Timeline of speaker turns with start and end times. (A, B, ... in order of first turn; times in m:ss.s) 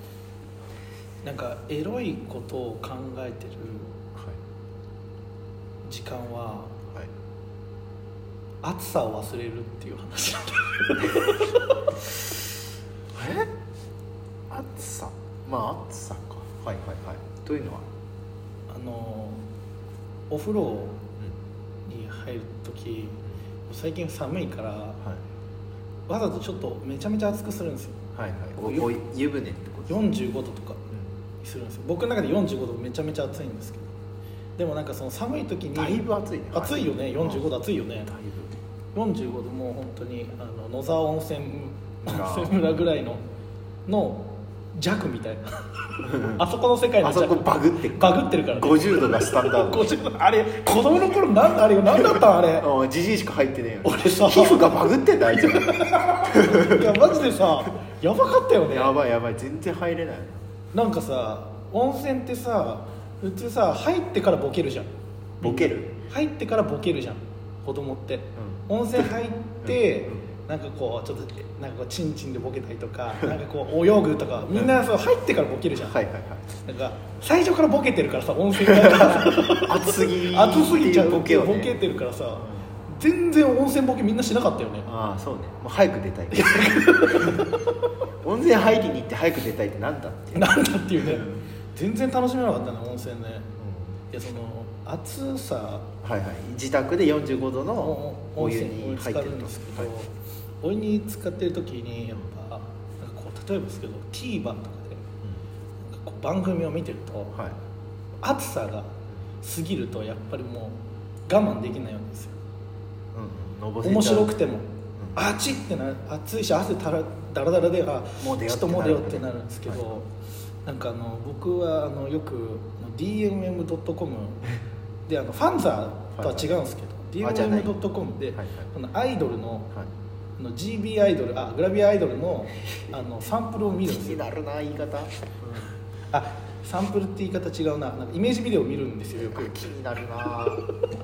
0:01.2-0:03.9 A
0:04.1-0:04.4 B
0:05.8-0:06.8 A
0:08.6-0:11.8 A
0:13.1-0:13.5 B
0:14.5-0:17.9 B
0:18.7-0:19.4 A
0:20.3-0:21.0 A
0:21.8-0:25.0 A
0:26.1-0:28.0 A
0:28.1-0:30.0 B
0:28.6-0:28.9 A
0:29.9-0:30.8 A
0:31.4-0:33.9 A
0:34.6-0:38.1 A
0:35.7-0:37.5 B
0:38.0-0:38.5 B
0:38.9-0:43.2 A
0:42.0-0:42.8 B
0:43.8-0:52.7 A
0:46.0-0:46.4 B
0:47.0-0:50.0 B
0:52.0-0:57.2 B
0:53.8-0:54.7 A
0:55.4-0:58.9 A
0:58.7-1:00.5 B
1:00.7-1:04.9 A
1:05.4-1:05.9 B
1:05.4-1:16.0 A
1:08.4-1:08.7 B
1:09.6-1:10.2 B
1:15.8-1:16.5 B
1:16.6-1:24.9 A
1:18.6-1:21.8 B
1:22.3-1:22.7 B
1:24.8-1:27.5 B
1:26.3-1:27.7 A
1:28.2-1:31.5 B
1:30.3-1:33.5 A
1:33.6-1:34.0 B
1:34.1-1:35.9 A
1:36.0-1:39.9 B
1:37.8-1:45.0 A
1:45.8-1:47.3 A
1:48.2-1:52.4 A
1:53.1-1:54.3 B
1:53.8-2:00.1 A
1:58.2-1:59.9 B
2:00.6-2:04.5 A
2:05.1-2:09.7 A
2:06.1-2:06.5 B
2:07.2-2:07.8 B
2:08.3-2:08.7 B
2:10.4-2:14.2 A
2:13.8-2:15.7 B
2:16.1-2:19.7 A
2:19.2-2:20.7 B